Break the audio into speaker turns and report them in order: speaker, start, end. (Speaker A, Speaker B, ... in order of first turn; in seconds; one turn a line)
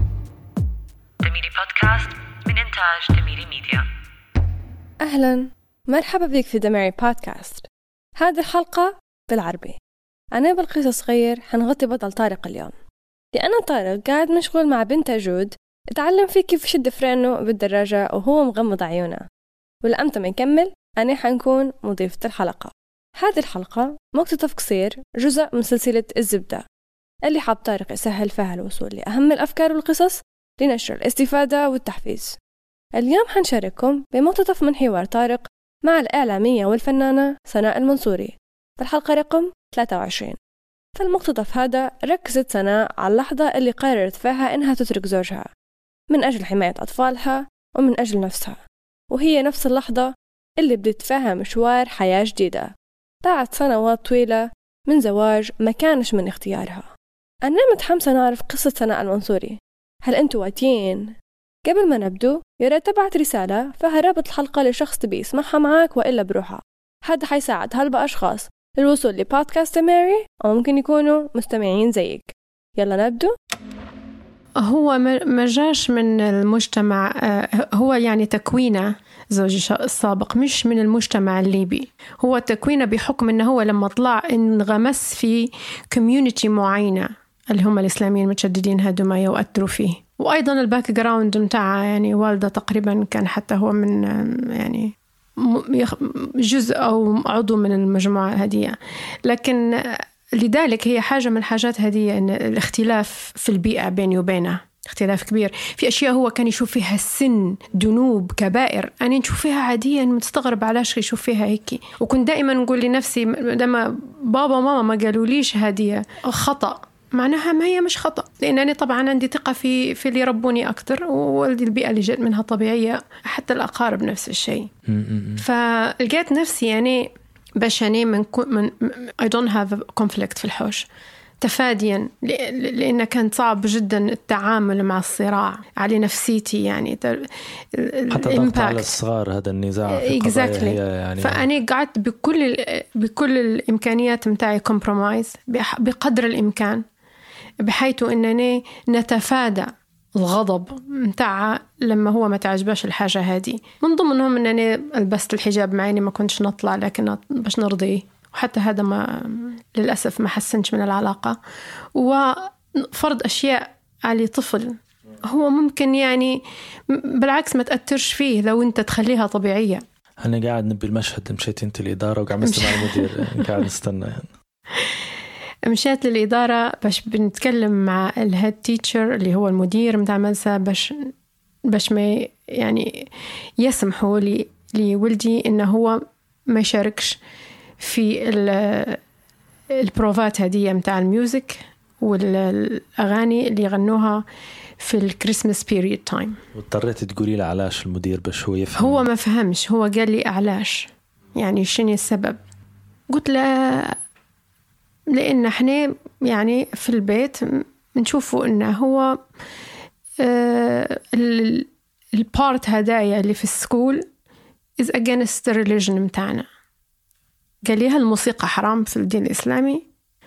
Speaker A: 1.2-3.9
Speaker B: 5.0-7.6
Speaker B: 8.2-9.8
Speaker B: 10.3-12.8
Speaker B: 13.3-19.2
Speaker B: 19.8-26.6
Speaker B: 27.2-32.4
Speaker B: 33.0-40.4
Speaker B: 41.0-45.5
Speaker B: 46.1-48.6
Speaker B: 49.1-52.7
Speaker B: 53.2-56.9
Speaker B: 57.4-61.1
Speaker B: 61.6-73.3
Speaker C: 74.6-124.7
Speaker D: 124.9-125.4
Speaker C: 125.4-130.9
Speaker C: 131.4-138.9
Speaker D: 138.1-141.4
Speaker C: 139.9-146.8
Speaker C: 147.6-161.4
Speaker C: 161.9-169.8
Speaker D: 170.2-174.3
Speaker C: 172.4-173.5
Speaker C: 175.7-181.1
Speaker C: 181.7-187.2
Speaker C: 187.8-189.0
Speaker C: 189.7-194.2
Speaker C: 194.8-196.4
Speaker D: 196.5-199.1
Speaker C: 198.8-202.4
Speaker C: 203.1-203.9
Speaker C: 205.1-209.2
Speaker C: 210.2-214.0
Speaker C: 214.8-216.4
Speaker C: 217.7-219.8